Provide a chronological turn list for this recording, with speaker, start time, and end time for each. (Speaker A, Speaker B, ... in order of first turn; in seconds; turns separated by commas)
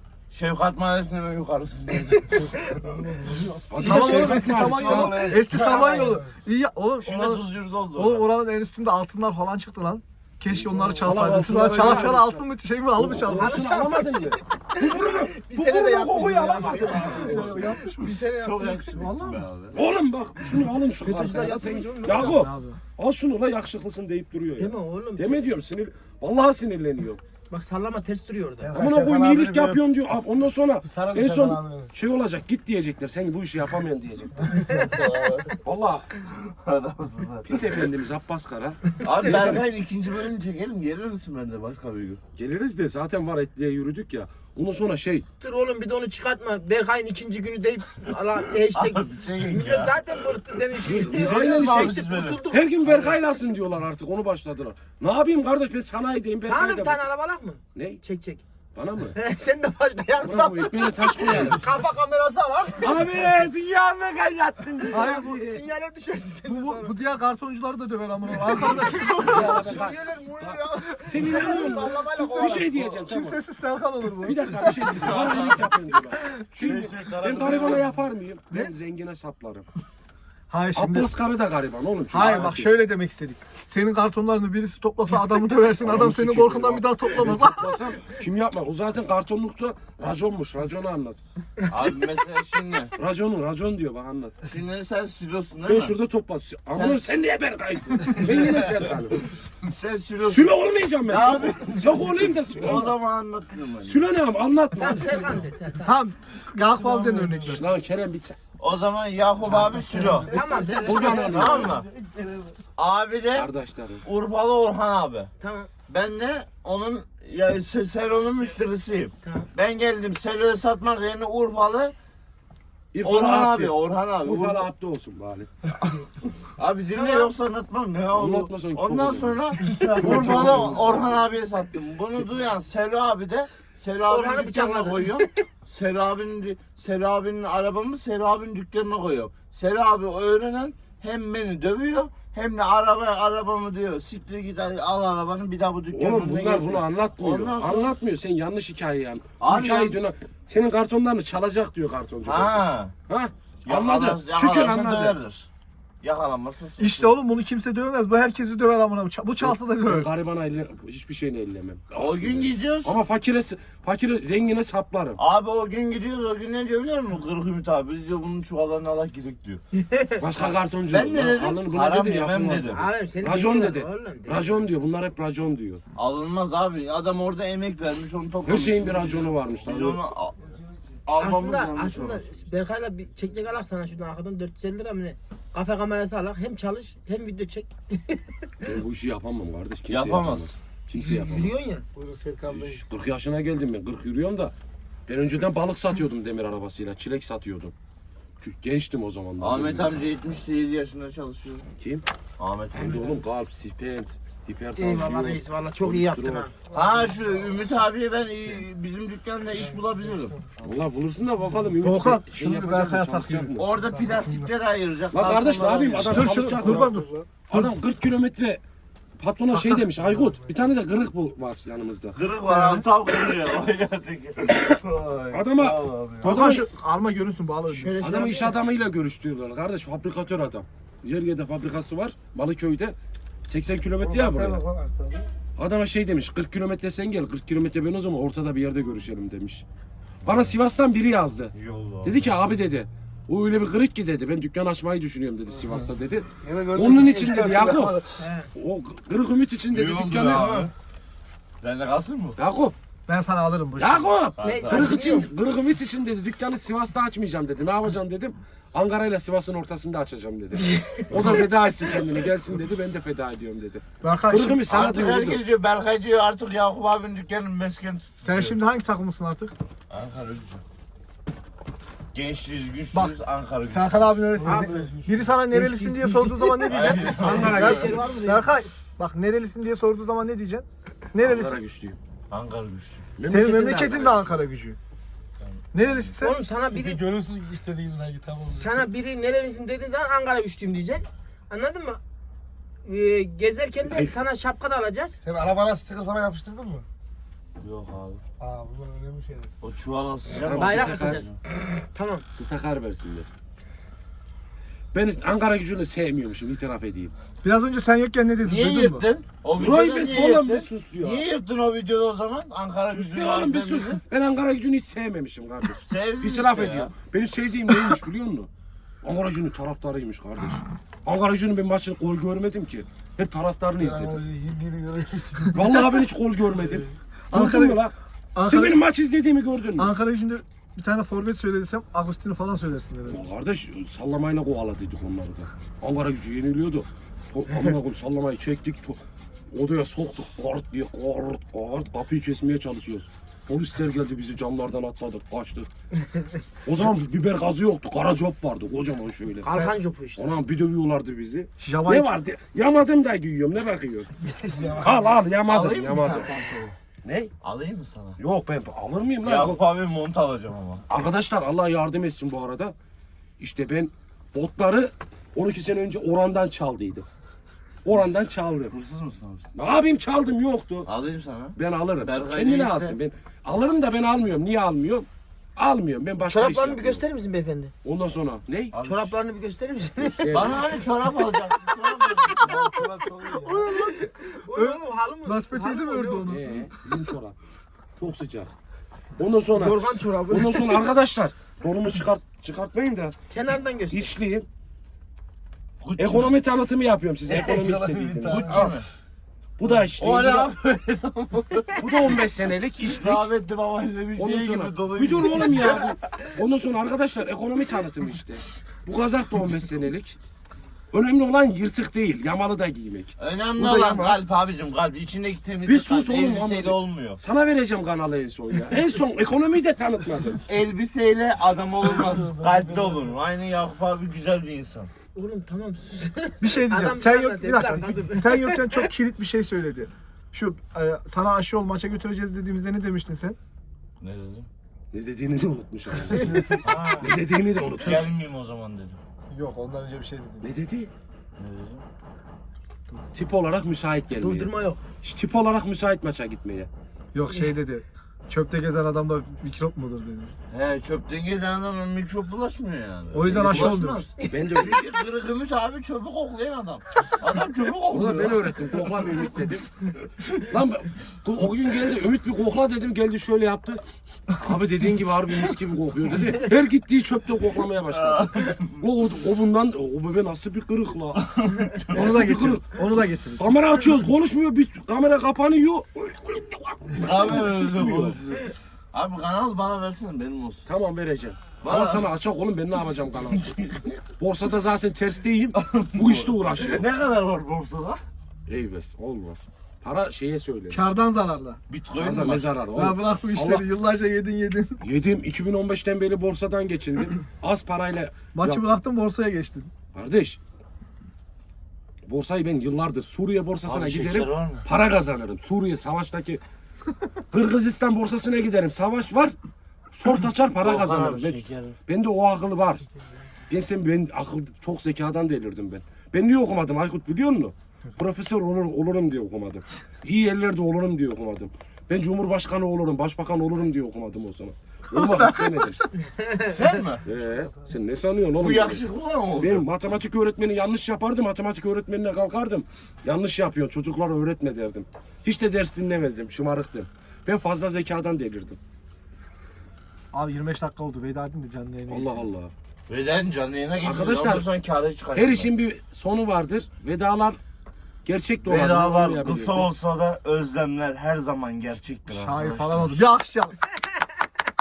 Speaker A: 0.3-2.5, Speaker B: 2.8-6.3, Speaker C: 3.7-5.4, Speaker D: 3.8-13.8, Speaker A: 5.6-5.9, Speaker A: 7.0-8.3, Speaker C: 10.5-12.4, Speaker E: 11.7-12.2, Speaker C: 13.0-17.8, Speaker E: 13.3-18.5, Speaker D: 16.0-19.5, Speaker A: 18.2-19.8, Speaker C: 19.7-27.2, Speaker E: 21.0-22.5, Speaker D: 21.1-22.8, Speaker E: 24.6-25.5, Speaker E: 27.5-28.8, Speaker B: 28.6-29.8, Speaker C: 28.7-34.6, Speaker B: 30.8-31.9, Speaker E: 34.7-35.0, Speaker A: 34.7-35.6, Speaker C: 35.6-36.1, Speaker A: 36.2-37.5, Speaker C: 37.5-39.6, Speaker A: 39.0-42.2, Speaker C: 42.4-45.2, Speaker E: 45.4-52.6, Speaker A: 48.8-50.0, Speaker C: 50.8-57.0, Speaker A: 50.9-53.1, Speaker E: 56.4-58.4, Speaker C: 57.7-58.0, Speaker C: 58.8-59.2, Speaker E: 59.2-63.3, Speaker C: 60.2-61.6, Speaker C: 62.8-65.2, Speaker E: 64.8-66.9, Speaker D: 64.9-65.6, Speaker D: 66.5-69.8, Speaker E: 68.4-72.9, Speaker C: 69.2-73.4, Speaker D: 71.2-74.8, Speaker C: 74.2-79.7, Speaker A: 74.9-75.7, Speaker A: 76.6-77.9, Speaker D: 80.5-81.1, Speaker C: 80.8-82.7, Speaker D: 82.1-87.8, Speaker C: 85.8-91.2, Speaker A: 91.7-92.9, Speaker C: 93.0-94.4, Speaker A: 94.5-96.0, Speaker C: 95.7-99.3, Speaker A: 96.7-97.1, Speaker A: 98.2-98.8, Speaker A: 99.6-104.1, Speaker C: 100.3-103.0, Speaker C: 103.8-105.3, Speaker E: 104.8-106.0, Speaker D: 105.8-107.7, Speaker B: 106.9-107.4, Speaker C: 107.4-108.4, Speaker A: 108.6-110.3, Speaker E: 110.3-111.4, Speaker B: 110.4-110.8, Speaker C: 110.7-111.8, Speaker A: 111.1-111.9, Speaker B: 112.0-112.5, Speaker A: 112.8-113.5, Speaker C: 113.3-114.0, Speaker A: 114.0-115.3, Speaker E: 115.4-115.7, Speaker A: 115.9-121.9, Speaker C: 122.9-125.5, Speaker A: 123.0-124.7, Speaker A: 126.6-147.9, Speaker E: 127.0-127.3, Speaker C: 128.1-131.1, Speaker E: 134.1-135.4, Speaker C: 145.9-155.2, Speaker A: 149.4-150.0, Speaker A: 152.2-152.9, Speaker A: 153.7-155.5, Speaker A: 156.0-157.2, Speaker D: 156.8-160.1, Speaker C: 159.4-165.2, Speaker A: 161.9-163.0, Speaker A: 165.2-169.6, Speaker E: 169.7-170.2, Speaker C: 170.2-175.8, Speaker A: 170.4-172.8, Speaker E: 172.7-174.5, Speaker A: 175.9-180.4, Speaker C: 178.4-180.0, Speaker A: 181.1-182.3, Speaker E: 181.2-188.6, Speaker C: 188.6-191.6, Speaker A: 189.9-190.5, Speaker E: 190.9-191.9, Speaker B: 191.9-192.8, Speaker C: 192.5-194.5, Speaker C: 195.1-197.7, Speaker C: 198.4-199.9, Speaker A: 199.4-201.7, Speaker C: 201.8-202.0, Speaker A: 202.4-203.2, Speaker C: 202.7-206.5, Speaker E: 204.8-206.5, Speaker A: 206.7-210.4, Speaker C: 210.6-213.8, Speaker D: 211.8-213.5, Speaker A: 213.6-216.4, Speaker B: 214.0-214.5, Speaker C: 215.1-216.9, Speaker D: 216.0-217.6, Speaker B: 216.5-217.3, Speaker C: 217.5-218.6, Speaker C: 219.2-222.2, Speaker D: 219.5-219.8, Speaker A: 222.1-226.4, Speaker D: 222.5-222.8, Speaker C: 225.3-226.6, Speaker D: 226.2-228.0, Speaker A: 227.7-228.6, Speaker C: 228.0-234.6, Speaker B: 234.0-235.3, Speaker C: 235.6-239.6, Speaker C: 240.2-250.7, Speaker A: 241.5-242.2, Speaker B: 246.4-248.2, Speaker E: 248.2-248.5, Speaker A: 249.7-250.7, Speaker A: 251.6-252.4, Speaker C: 252.4-252.8, Speaker D: 253.1-254.1, Speaker C: 253.8-265.4, Speaker A: 254.4-255.0, Speaker E: 254.4-255.3, Speaker E: 260.6-261.3, Speaker D: 264.0-264.6, Speaker A: 264.7-268.6, Speaker D: 268.2-269.6, Speaker A: 269.9-270.6, Speaker A: 272.1-274.1, Speaker D: 273.7-281.6, Speaker B: 274.4-275.3, Speaker E: 274.4-274.9, Speaker E: 275.5-278.5, Speaker A: 276.7-278.0, Speaker C: 277.1-278.0, Speaker C: 281.2-282.0, Speaker A: 282.3-283.1, Speaker C: 283.2-284.3, Speaker D: 283.3-284.8, Speaker A: 285.4-286.1, Speaker D: 285.7-286.4, Speaker E: 286.2-287.1, Speaker B: 286.7-288.7, Speaker E: 288.4-292.0, Speaker E: 292.9-295.2, Speaker C: 293.9-294.1, Speaker B: 295.2-296.9, Speaker A: 297.6-298.2, Speaker B: 298.4-299.5, Speaker A: 299.6-301.4, Speaker C: 300.3-301.2, Speaker E: 300.5-301.3, Speaker E: 301.9-302.2, Speaker C: 302.3-303.3, Speaker C: 304.9-307.1, Speaker D: 307.4-309.1, Speaker A: 308.4-314.0, Speaker C: 309.6-311.2, Speaker C: 312.9-318.5, Speaker A: 315.8-316.9, Speaker C: 319.0-324.3, Speaker B: 323.8-325.6, Speaker C: 325.5-327.9, Speaker D: 327.3-327.8, Speaker D: 328.4-328.8, Speaker C: 328.5-329.9, Speaker D: 329.8-333.2, Speaker C: 333.1-339.0, Speaker C: 339.5-345.7, Speaker C: 346.6-349.5, Speaker E: 349.4-350.4, Speaker C: 350.2-356.3, Speaker D: 351.6-352.1, Speaker B: 354.4-354.9, Speaker A: 355.5-356.7, Speaker C: 357.0-357.3, Speaker A: 357.4-358.2, Speaker C: 358.2-359.6, Speaker A: 359.2-360.8, Speaker C: 360.9-362.8, Speaker C: 363.4-367.1, Speaker C: 367.8-368.7, Speaker A: 368.7-369.5, Speaker C: 369.5-370.9, Speaker A: 370.9-373.0, Speaker C: 371.6-377.0, Speaker E: 376.2-377.7, Speaker C: 377.8-378.7, Speaker A: 378.7-379.1, Speaker E: 378.8-380.6, Speaker C: 380.0-380.8, Speaker A: 380.3-382.5, Speaker E: 382.1-386.4, Speaker B: 382.4-383.7, Speaker D: 383.7-383.9, Speaker D: 384.5-386.7, Speaker C: 386.3-387.4, Speaker C: 388.0-388.5, Speaker C: 389.2-393.1, Speaker E: 389.6-390.9, Speaker E: 393.3-394.1, Speaker C: 393.9-394.5, Speaker A: 395.8-396.4, Speaker C: 396.0-398.8, Speaker B: 397.3-398.8, Speaker A: 398.3-398.9, Speaker C: 399.6-400.5, Speaker A: 400.0-402.2, Speaker C: 401.8-403.3, Speaker A: 402.8-405.9, Speaker C: 404.2-410.2, Speaker C: 410.9-414.2, Speaker A: 413.2-417.2, Speaker C: 415.7-420.4, Speaker A: 420.5-424.9, Speaker B: 422.1-423.0, Speaker E: 425.1-428.9, Speaker D: 426.4-433.4, Speaker A: 434.0-434.5, Speaker C: 434.9-438.1, Speaker A: 436.6-439.0, Speaker D: 439.3-440.5, Speaker C: 440.4-440.9, Speaker A: 441.4-441.8, Speaker C: 443.1-446.7, Speaker E: 444.1-444.8, Speaker D: 447.1-450.3, Speaker A: 450.5-459.2, Speaker D: 453.1-454.1, Speaker C: 453.3-454.8, Speaker E: 454.2-454.5, Speaker C: 457.9-471.3, Speaker A: 467.9-468.8, Speaker A: 471.2-472.1, Speaker C: 471.8-472.8, Speaker D: 471.9-473.5, Speaker C: 473.4-478.2, Speaker A: 476.9-480.7, Speaker C: 480.7-486.9, Speaker A: 481.6-482.1, Speaker A: 483.4-483.9, Speaker A: 485.6-488.0, Speaker C: 488.5-490.9, Speaker D: 490.7-491.6, Speaker A: 491.7-492.5, Speaker C: 491.9-493.7, Speaker D: 492.7-494.8, Speaker C: 494.8-498.6, Speaker D: 498.3-499.7, Speaker C: 499.9-500.4, Speaker C: 502.1-506.4, Speaker A: 503.7-504.7, Speaker C: 507.3-509.4, Speaker C: 509.9-512.9, Speaker A: 510.6-511.8, Speaker C: 513.5-525.8, Speaker D: 524.9-525.9, Speaker E: 526.0-526.8, Speaker A: 526.4-527.0, Speaker C: 527.0-528.8, Speaker A: 528.4-529.6, Speaker C: 529.4-538.6, Speaker D: 540.1-542.3, Speaker C: 541.9-542.5, Speaker A: 542.9-545.5, Speaker C: 543.8-544.5, Speaker C: 545.2-547.4, Speaker C: 548.0-549.7, Speaker A: 548.5-553.1, Speaker D: 552.1-553.6